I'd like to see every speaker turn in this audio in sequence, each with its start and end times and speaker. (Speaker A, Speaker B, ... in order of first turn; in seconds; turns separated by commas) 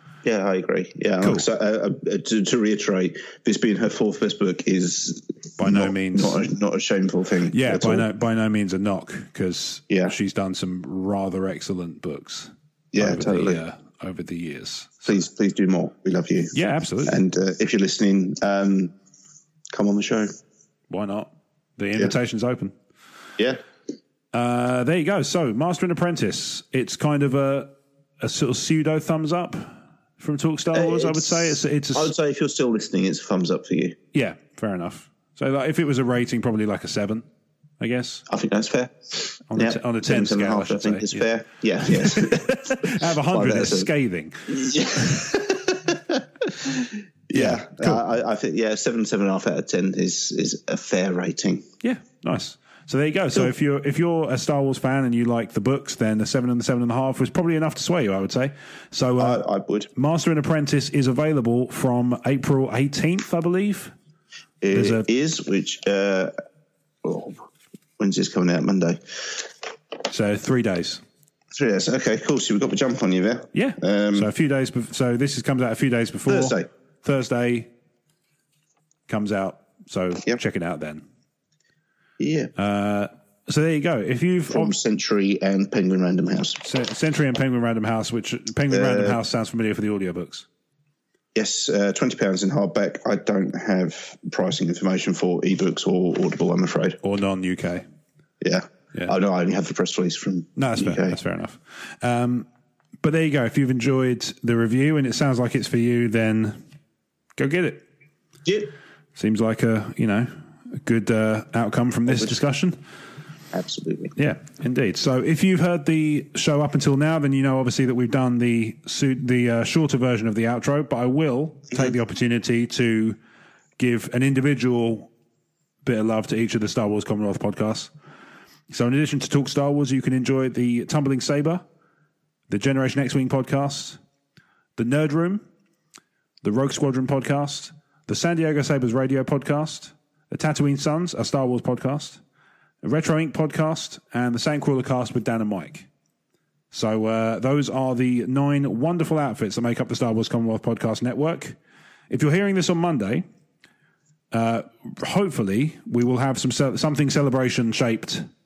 Speaker A: 0.2-8.1, Speaker B: 1.2-1.5, Speaker B: 5.6-6.4, Speaker B: 7.5-15.2, Speaker A: 9.9-10.1, Speaker A: 12.9-13.6, Speaker A: 15.1-18.9, Speaker B: 16.5-17.2, Speaker A: 19.7-20.3, Speaker B: 20.9-22.7, Speaker B: 24.3-32.1, Speaker A: 30.7-34.0, Speaker B: 34.1-37.2, Speaker B: 37.8-38.2, Speaker A: 38.3-43.9, Speaker B: 39.5-41.3, Speaker B: 41.8-45.2, Speaker A: 44.5-51.7, Speaker B: 47.3-48.0, Speaker B: 51.8-59.4, Speaker A: 59.2-59.9, Speaker B: 59.9-63.9, Speaker A: 64.6-66.3, Speaker B: 64.7-65.0, Speaker A: 67.0-67.4, Speaker A: 68.0-69.5, Speaker B: 70.1-71.0, Speaker A: 71.5-74.3, Speaker B: 73.5-77.7, Speaker A: 76.2-76.7, Speaker B: 79.1-81.0, Speaker A: 82.2-82.5, Speaker B: 82.5-84.8, Speaker A: 84.5-86.6, Speaker B: 86.6-90.5, Speaker A: 88.7-89.2, Speaker A: 91.3-97.0, Speaker B: 97.0-97.8, Speaker A: 98.4-101.2, Speaker B: 100.6-102.5, Speaker B: 103.0-106.6, Speaker B: 107.4-107.8, Speaker A: 108.4-108.7, Speaker B: 109.2-112.8, Speaker A: 112.1-112.4, Speaker A: 113.5-114.2, Speaker B: 114.2-123.2, Speaker B: 123.8-125.1, Speaker B: 125.8-127.9, Speaker B: 128.7-131.6, Speaker B: 132.5-134.0, Speaker B: 134.8-135.4, Speaker B: 136.4-142.2, Speaker B: 142.8-145.9, Speaker B: 146.7-151.6, Speaker B: 152.1-153.2, Speaker B: 154.3-158.3